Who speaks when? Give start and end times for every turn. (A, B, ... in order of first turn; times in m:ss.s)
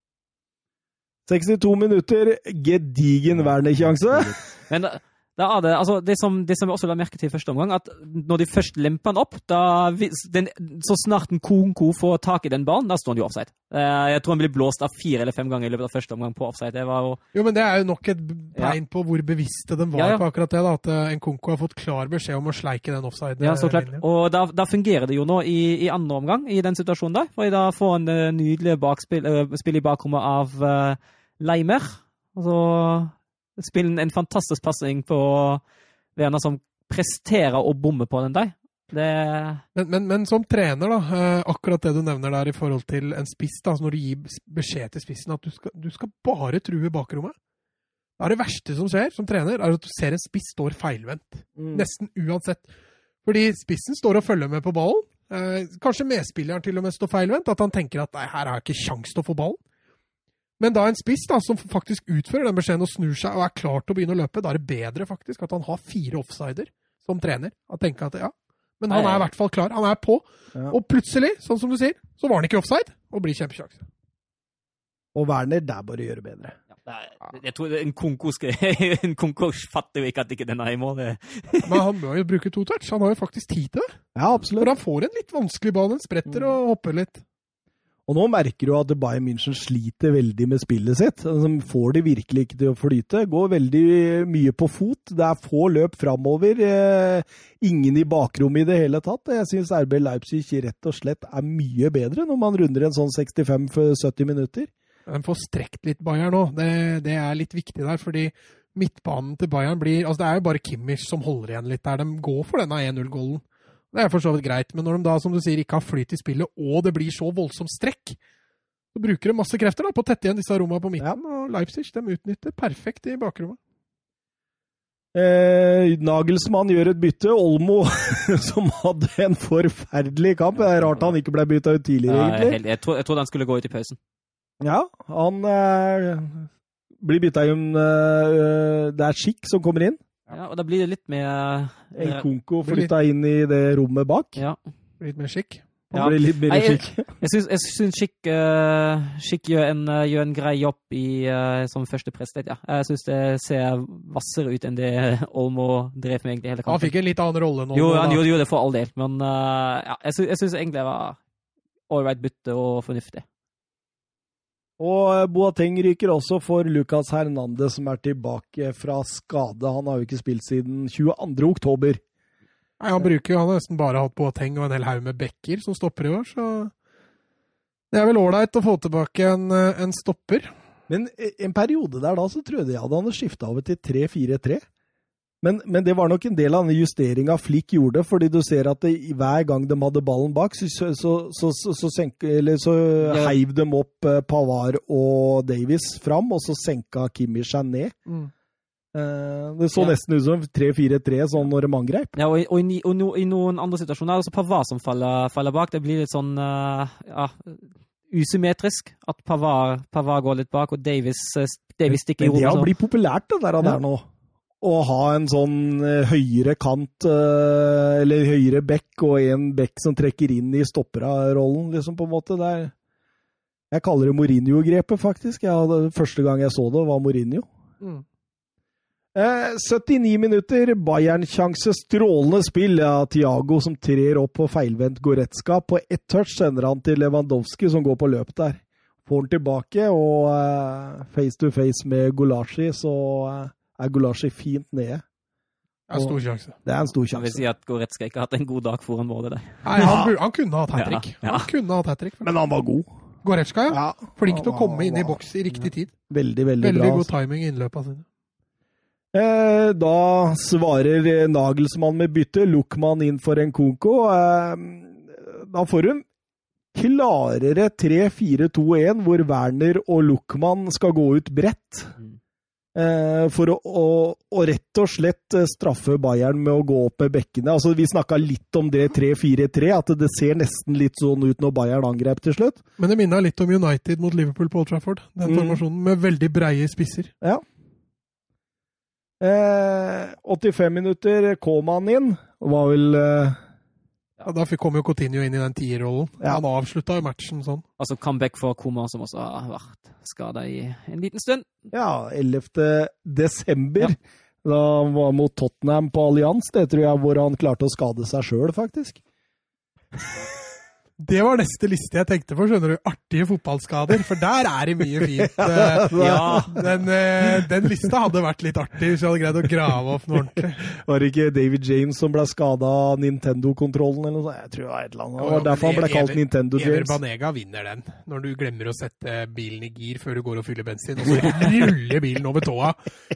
0:01.3-0:04.4 A
0:03.4-0:17.2 B
0:17.3-0:24.0 C
0:19.9-0:20.2 B
0:23.4-0:35.6 B
0:36.2-0:39.6 B
0:39.7-0:47.4 C
0:48.2-0:52.7 C
0:51.6-0:51.8 A
0:53.2-0:59.6 C
1:00.6-1:13.8 C
1:08.9-1:09.3 B
1:15.1-1:16.6 A
1:16.8-1:21.8 B
1:21.6-1:23.9 C
1:24.1-1:24.7 A
1:24.6-1:27.2 C
1:28.1-1:44.7 A
1:45.1-1:58.2 C
1:58.9-2:03.6 C
2:05.1-2:12.6 A
2:12.1-2:14.0 B
2:14.6-2:16.5 A
2:17.0-2:20.0 A
2:20.3-2:22.2 B
2:21.9-2:24.4 A
2:22.6-2:22.9 C
2:25.0-2:25.7 C
2:25.9-2:27.1 A
2:25.9-2:36.9 B
2:36.7-2:38.3 C
2:37.7-2:41.2 B
2:41.9-2:43.2 B
2:44.8-2:52.0 A
2:52.8-2:56.7 C
2:57.9-3:00.5 C
3:00.9-3:04.6 A
3:05.4-3:18.0 A
3:13.0-3:13.4 B
3:18.9-3:22.1 A
3:22.2-3:32.7 B
3:31.9-3:34.0 A
3:34.6-3:42.7 A
3:43.7-3:47.4 A
3:49.1-4:05.0 A
4:05.9-4:06.6 C
4:05.9-4:07.4 A
4:07.1-4:10.1 B
4:09.6-4:12.3 C
4:10.7-4:11.5 B
4:12.2-4:12.9 A
4:13.2-4:15.9 C
4:13.7-4:15.2 A
4:16.1-4:17.1 A
4:16.6-4:18.1 C
4:19.1-4:26.0 A
4:26.7-4:31.9 A
4:32.7-4:42.6 A
4:42.8-4:47.1 C
4:45.2-4:45.6 A
4:49.2-4:53.4 A
4:54.2-4:57.6 C
4:57.8-5:01.6 B
5:01.7-5:09.0 A
5:11.0-5:16.0 C
5:15.2-5:16.6 A
5:15.9-5:16.6 B
5:16.5-5:20.6 C
5:20.6-5:27.0 A
5:25.2-5:32.8 C